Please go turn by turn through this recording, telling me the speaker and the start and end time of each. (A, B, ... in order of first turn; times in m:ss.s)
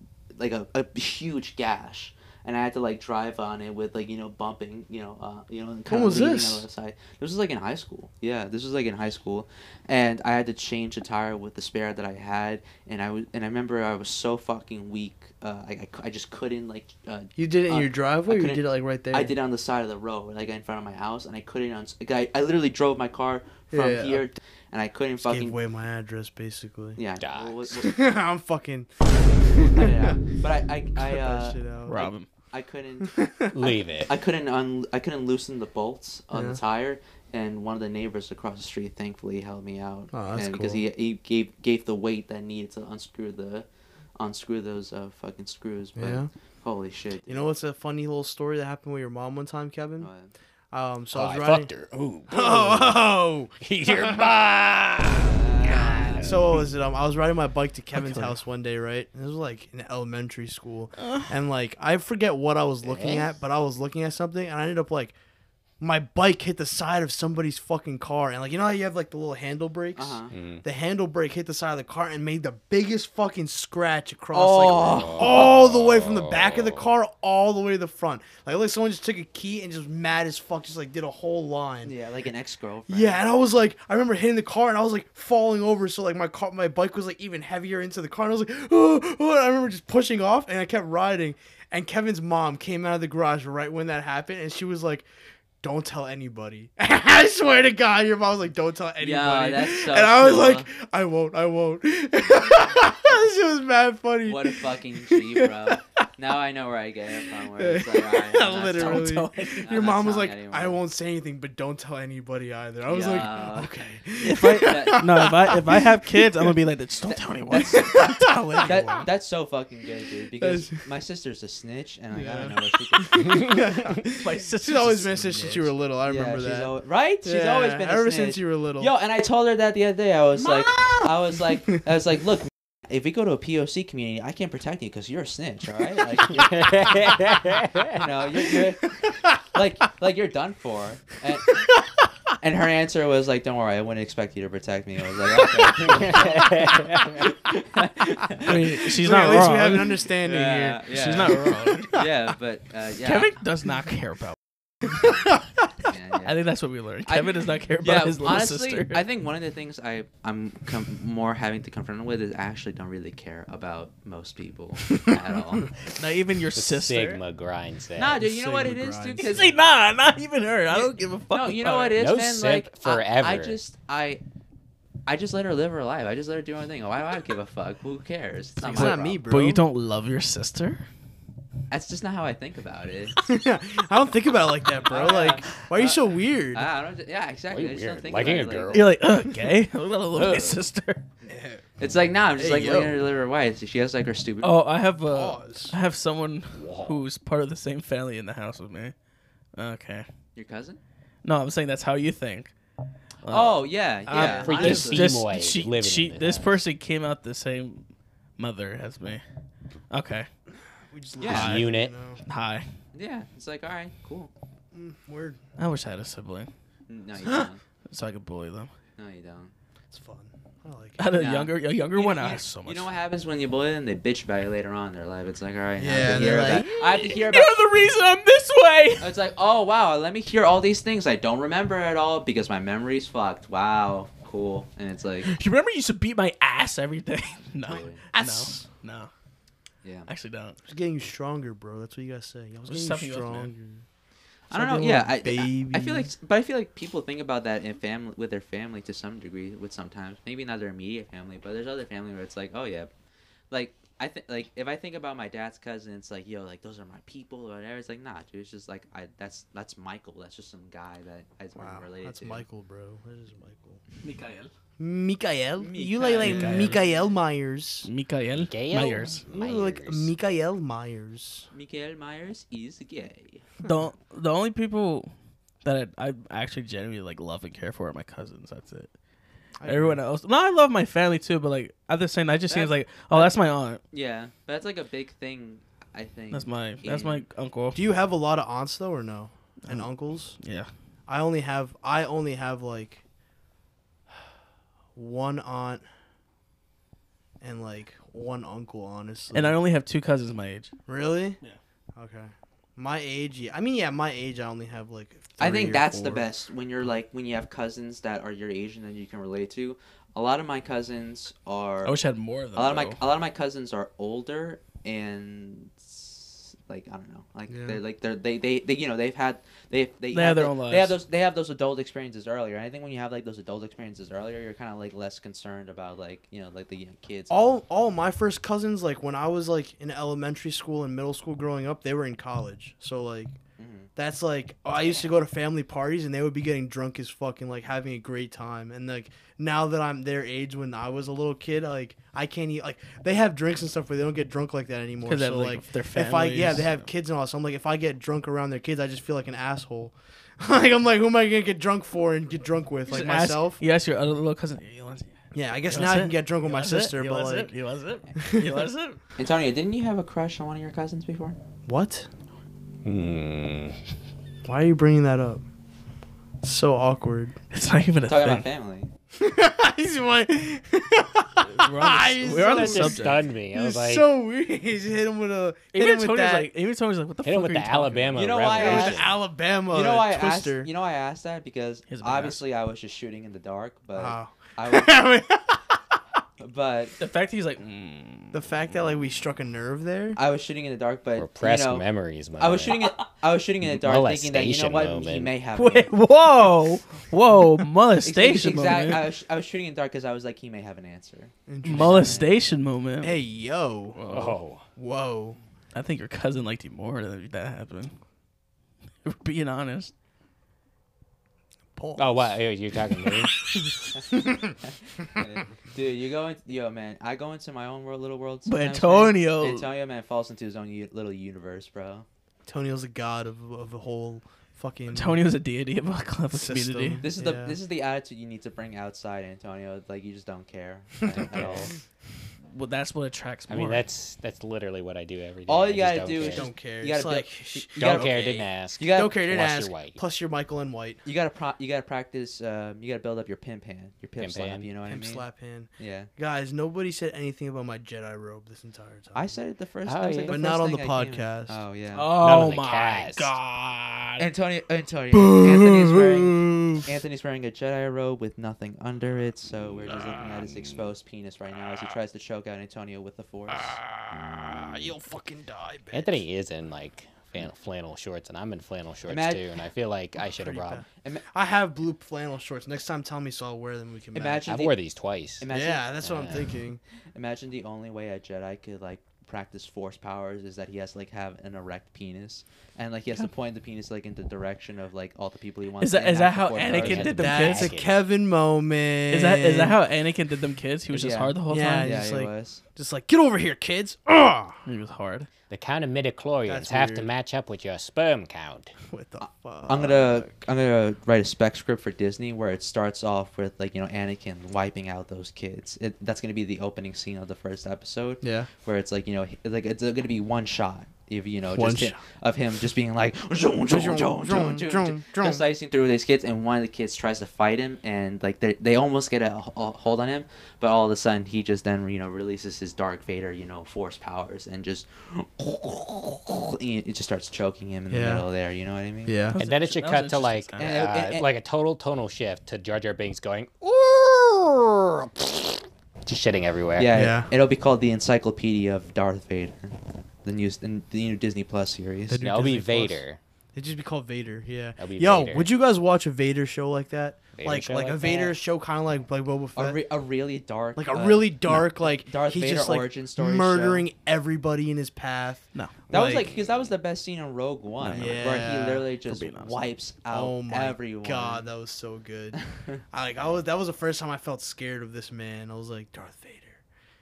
0:00.3-0:25.6 A
0:05.9-0:06.6 B
0:17.4-0:19.3 B
0:23.7-0:24.2 B
0:25.2-0:27.0 B
0:27.0-0:28.0 A
0:27.2-0:27.6 C
0:27.7-0:30.2 B
0:29.6-0:33.2 A
0:31.0-0:32.0 B
0:31.8-0:32.3 D
0:33.0-0:33.5 B
0:33.5-0:34.1 C
0:34.0-0:47.5 A
0:36.3-0:36.6 B
0:40.1-0:40.8 B
0:46.0-0:46.3 B
0:47.3-0:50.1 B
0:50.0-0:50.3 A
0:50.7-0:51.7 B
0:51.1-0:56.6 C
0:52.3-0:54.3 B
0:55.2-0:56.3 A
0:55.6-1:05.1 B
0:57.9-0:58.3 D
1:01.0-1:01.3 D
1:02.8-1:03.3 C
1:05.8-1:21.9 B
1:09.9-1:10.3 A
1:10.3-1:10.6 C
1:14.3-1:15.5 A
1:14.8-1:16.8 C
1:21.8-1:23.2 A
1:22.9-1:35.1 B
1:35.6-1:46.0 B
1:39.0-1:40.7 A
1:44.2-1:50.8 A
1:47.3-1:56.5 B
1:48.7-1:49.7 D
1:52.9-1:53.7 A
1:54.2-1:59.0 D
1:54.4-1:55.3 A
1:57.1-2:03.5 A
1:58.1-1:59.1 B
2:00.4-2:00.8 B
2:02.1-2:06.7 B
2:04.0-2:05.6 D
2:06.0-2:17.3 A
2:07.2-2:08.9 B
2:10.5-2:11.0 B
2:16.4-2:18.0 C
2:17.8-2:21.6 A
2:22.4-2:28.9 A
2:25.8-2:27.2 C
2:28.4-2:30.0 D
2:28.4-2:30.8 B
2:30.2-2:33.3 A
2:30.9-2:32.0 D
2:33.0-2:34.4 D
2:35.9-2:36.4 A
2:36.2-2:39.0 D
2:37.0-2:45.7 A
2:45.9-2:47.2 D
2:46.5-2:48.2 C
2:48.0-2:49.5 A
2:48.2-2:49.5 B
2:49.2-2:52.0 D
2:50.7-2:54.2 A
2:52.0-2:53.6 C
2:55.0-2:59.2 A
2:58.6-2:59.6 B
2:58.6-3:00.8 D
3:01.7-3:03.2 A
3:03.2-3:06.7 B
3:04.8-3:08.9 A
3:07.5-3:09.0 C
3:08.7-3:11.0 D
3:10.1-3:10.6 A
3:11.2-3:11.6 B
3:11.8-3:14.5 A
3:12.4-3:12.9 B
3:12.5-3:12.8 D
3:14.4-3:18.9 D
3:15.1-3:15.8 B
3:16.5-3:17.0 C
3:19.6-3:20.1 D
3:20.4-3:20.8 A
3:21.2-3:22.5 D
3:23.2-3:27.8 D
3:23.3-3:25.2 A
3:24.1-3:24.8 B
3:24.4-3:26.6 C
3:28.4-3:29.2 D
3:29.9-3:30.3 D
3:30.9-3:32.2 B
3:31.2-3:31.5 A
3:31.2-3:31.9 C
3:31.3-3:31.7 D
3:32.2-3:32.6 D
3:32.9-3:34.3 A
3:34.7-3:35.4 B
3:35.6-3:36.5 D
3:36.9-3:37.6 A
3:37.9-3:38.7 D
3:39.0-3:39.5 A
3:39.9-3:41.1 B
3:41.0-3:42.9 D
3:41.1-3:47.5 A
3:45.8-3:46.7 B
3:46.0-3:49.1 D
3:49.0-3:55.3 A
3:55.2-3:59.1 D
3:57.6-3:58.0 A
3:58.1-3:58.6 B
3:59.8-4:00.1 A
4:00.1-4:00.6 D
4:00.7-4:03.8 B
4:02.7-4:03.5 D
4:04.5-4:12.9 A
4:04.5-4:06.1 B
4:13.5-4:22.4 A
4:21.5-4:23.8 B
4:24.0-4:24.5 D
4:24.8-4:27.9 B
4:25.6-4:26.9 A
4:26.2-4:26.8 D
4:27.8-4:29.2 D
4:28.3-4:30.1 C
4:29.3-4:31.5 B
4:31.5-4:33.4 A
4:33.6-4:35.1 D
4:35.6-4:38.9 D
4:39.6-4:40.0 B
4:39.6-4:43.8 D
4:42.5-4:47.2 A
4:46.3-4:47.8 D
4:47.7-4:50.4 B
4:50.4-4:50.7 D
4:51.1-4:53.0 B
4:55.0-4:55.8 B
4:57.4-4:59.6 B
4:59.3-5:00.7 D
5:00.9-5:01.4 B
5:02.0-5:06.3 B
5:05.4-5:12.0 A
5:11.8-5:13.0 D
5:12.5-5:27.6 A
5:17.5-5:17.8 B
5:20.1-5:21.0 D
5:27.3-5:33.4 B
5:33.6-5:33.9 A
5:34.0-5:53.6 B
5:45.0-5:46.7 D
5:52.9-5:55.1 D
5:55.3-5:57.5 B
5:55.7-5:59.0 D
5:58.2-5:58.6 B
5:59.2-6:01.4 A
6:01.6-6:02.1 B
6:02.8-6:03.8 C
6:04.4-6:05.4 B
6:06.4-6:07.4 B
6:07.5-6:08.4 D
6:08.0-6:08.9 A
6:09.1-6:16.5 B
6:11.4-6:13.2 D
6:12.4-6:14.1 C
6:15.7-6:18.3 D
6:17.2-6:19.2 C
6:18.1-6:19.1 A
6:18.5-6:20.7 B
6:19.7-6:25.0 A
6:21.9-6:22.4 D
6:23.9-6:26.0 B
6:26.4-6:27.0 A
6:27.0-6:28.7 D
6:28.3-6:30.2 B
6:30.1-6:31.8 A
6:31.2-6:32.8 C
6:32.4-6:35.9 A
6:33.6-6:35.3 C
6:35.5-6:39.0 D
6:38.0-6:42.3 A
6:41.5-6:42.3 B
6:41.6-6:43.2 D
6:43.0-6:44.0 B
6:43.9-6:44.4 D
6:44.1-6:44.6 C
6:44.8-6:45.4 B
6:45.7-6:47.9 D
6:49.0-6:49.9 D
6:51.8-6:52.4 B
6:52.0-6:53.5 C
6:53.9-7:02.0 A
6:54.1-6:54.5 B
6:58.4-6:59.6 D
7:02.4-7:05.2 B
7:04.9-7:07.0 D
7:06.3-7:07.6 B
7:07.0-7:11.7 A
7:11.2-7:11.7 C
7:12.5-7:13.8 D
7:13.5-7:16.5 C
7:15.5-7:19.2 A
7:16.2-7:18.2 B
7:17.8-7:20.0 C
7:18.9-7:21.0 B
7:21.0-7:25.2 A
7:24.2-7:24.7 C
7:24.9-7:29.4 B
7:25.8-7:26.1 A
7:29.1-7:32.1 A
7:29.8-7:30.4 C
7:30.3-7:31.6 B
7:31.9-7:34.3 D
7:32.2-7:33.3 C
7:34.2-7:43.8 A
7:35.1-7:36.9 B
7:43.5-7:46.2 B
7:44.4-7:44.7 C
7:45.9-7:50.8 C
7:49.1-7:49.4 A
7:50.4-7:54.5 B
7:54.1-7:54.8 A
7:54.4-7:55.4 C
7:55.4-7:56.0 A
7:55.5-7:56.8 B
7:56.0-7:56.5 C
7:57.1-8:07.3 A
8:05.8-8:07.7 D
8:06.7-8:07.9 C
8:07.2-8:09.8 B
8:09.1-8:12.0 D
8:10.9-8:12.6 A
8:11.5-8:14.6 B
8:14.6-8:15.3 D
8:15.5-8:18.7 C
8:16.4-8:17.1 B
8:18.9-8:20.3 B
8:19.2-8:49.2 A
8:28.2-8:28.5 B
8:31.5-8:32.0 B
8:33.7-8:35.4 B
8:47.9-8:48.2 B
8:49.0-8:49.4 B
8:49.3-8:50.8 D
8:49.4-8:57.1 C
8:50.6-8:51.3 A
8:56.8-9:02.2 A
8:56.9-8:57.3 B
9:02.1-9:03.0 B
9:02.2-9:03.2 C
9:03.5-9:09.8 B
9:04.8-9:05.5 C
9:07.4-9:08.2 C
9:09.6-9:13.8 A
9:10.8-9:16.3 B
9:15.9-9:16.7 C
9:15.9-9:21.5 A
9:17.8-9:18.4 D
9:17.9-9:18.8 B
9:19.1-9:19.7 D
9:20.1-9:22.4 B
9:22.4-9:22.8 A
9:22.9-9:26.6 B